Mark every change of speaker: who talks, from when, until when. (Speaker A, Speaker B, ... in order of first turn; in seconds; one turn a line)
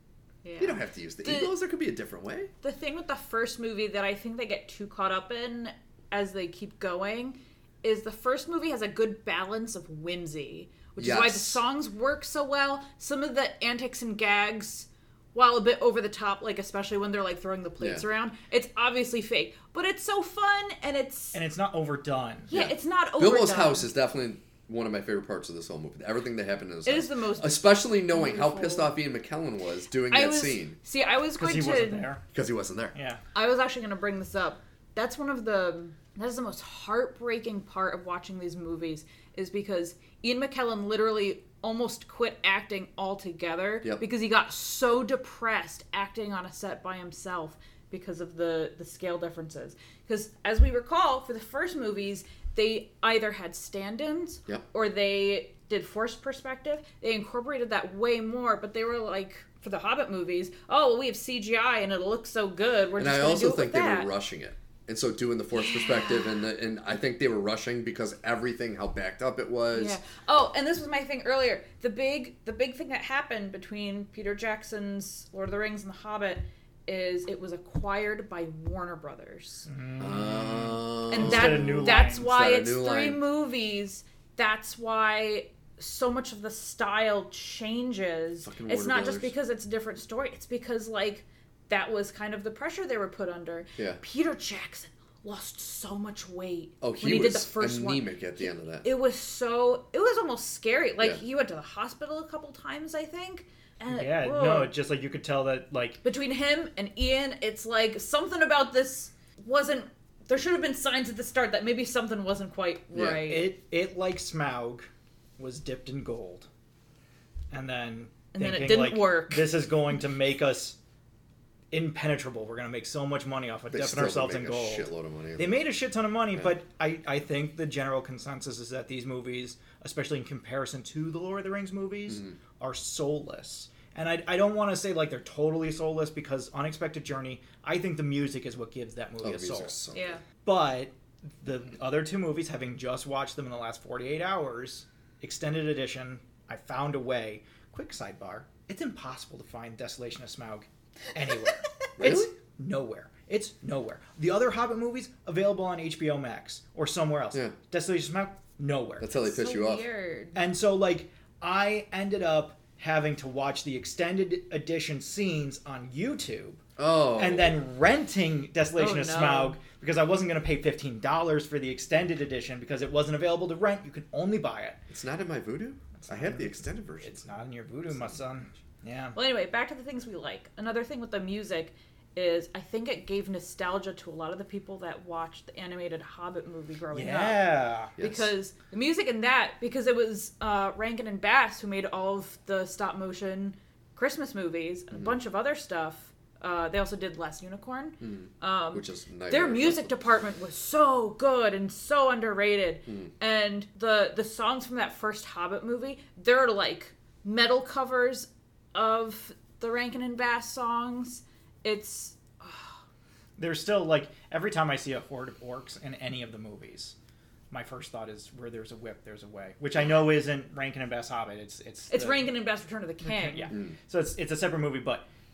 Speaker A: 0.4-1.5
Speaker B: 0.6-2.5
Speaker A: 2.6-21.4
Speaker B: 11.0-11.6
Speaker B: 17.8-18.1
Speaker C: 21.3-22.5
Speaker A: 22.5-23.9
Speaker B: 22.5-30.8
Speaker A: 26.9-28.9
Speaker A: 30.1-32.1
Speaker C: 31.4-32.2
Speaker B: 32.3-33.0
Speaker C: 33.0-33.2
Speaker A: 33.4-64.1
Speaker B: 63.0-70.0
Speaker A: 65.5-66.4
Speaker A: 69.7-79.7
Speaker C: 79.7-82.3
Speaker B: 80.0-83.2
Speaker A: 81.1-104.7
Speaker B: 88.5-89.3
Speaker B: 96.8-98.9
Speaker C: 103.9-106.0
Speaker A: 106.0-113.5
Speaker B: 112.9-113.2
Speaker C: 113.3-116.5
Speaker C: 117.5-120.8
Speaker A: 118.3-119.5
Speaker C: 121.7-139.8
Speaker B: 123.7-125.6
Speaker B: 132.1-132.4
Speaker B: 139.2-140.2
Speaker A: 139.9-140.2
Speaker C: 140.4-159.1
Speaker B: 152.0-152.3
Speaker B: 159.0-159.8
Speaker A: 159.2-160.4
Speaker C: 160.3-166.6
Speaker B: 166.8-167.6
Speaker C: 167.2-174.8
Speaker A: 168.8-169.6
Speaker B: 174.9-177.2
Speaker C: 176.0-179.2
Speaker A: 179.2-212.8
Speaker C: 186.9-187.9
Speaker B: 188.0-188.3
Speaker B: 198.0-199.9
Speaker C: 213.4-216.9
Speaker C: 217.5-222.3
Speaker A: 221.9-223.5
Speaker C: 223.0-225.1